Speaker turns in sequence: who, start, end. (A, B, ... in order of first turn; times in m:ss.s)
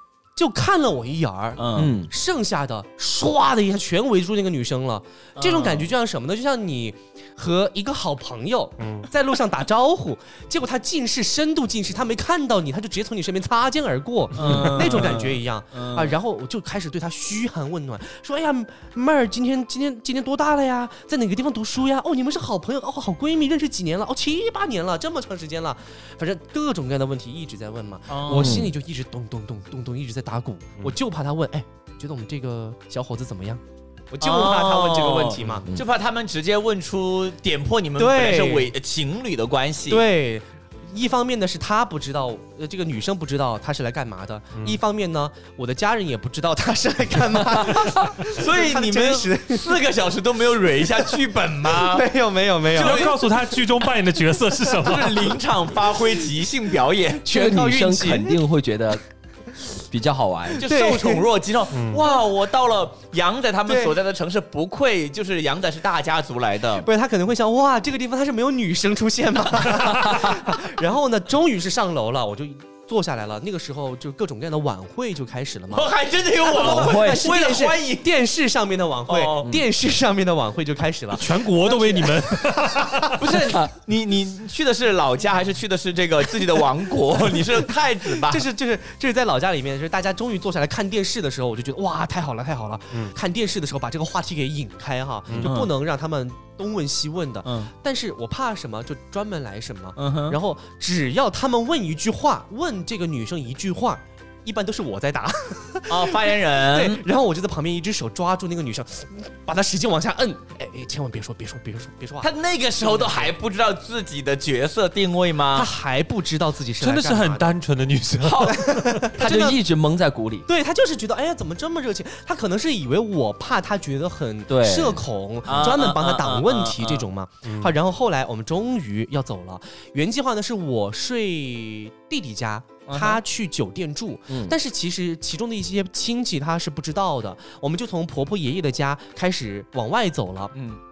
0:00.4-0:35.7 A
0:01.6-0:01.9 B
0:01.8-0:02.1 C
0:05.4-0:05.9 B
0:08.8-0:09.1 D
0:14.3-0:16.1 B
0:14.4-0:14.8 D
0:28.1-0:28.6 B
0:28.3-0:28.7 C
0:34.2-0:40.0 B
0:38.0-0:38.7 A
0:39.9-0:49.8 A
0:48.3-0:52.0 B
0:51.7-0:53.1 A
0:52.7-0:53.4 B
0:52.7-0:55.4 D
0:54.8-0:57.3 B
0:57.2-0:58.4 A
0:57.3-0:59.0 C
0:59.7-1:00.6 C
1:00.6-1:06.9 B
1:00.6-1:01.3 A
1:01.7-1:02.0 D
1:03.7-1:03.9 A
1:06.8-1:15.9 A
1:15.7-1:18.0 B
1:16.4-1:23.3 A
1:16.5-1:17.3 C
1:19.1-1:19.5 B
1:21.1-1:23.2 D
1:23.2-1:28.4 B
1:28.1-1:52.3 A
1:35.3-1:35.5 D
1:35.4-1:35.7 B
1:37.4-1:37.7 B
1:40.0-1:40.4 B
1:45.9-1:47.0 B
1:52.2-1:55.7 B
1:52.8-1:53.3 A
1:55.5-1:57.5 A
1:56.8-1:59.0 D
1:58.2-1:58.5 B
1:58.4-1:59.6 A
1:59.1-2:00.5 C
2:00.5-2:20.5 A
2:04.5-2:05.0 C
2:05.4-2:07.0 B
2:07.4-2:07.7 D
2:12.9-2:13.2 B
2:14.3-2:14.5 C
2:20.5-2:20.8 B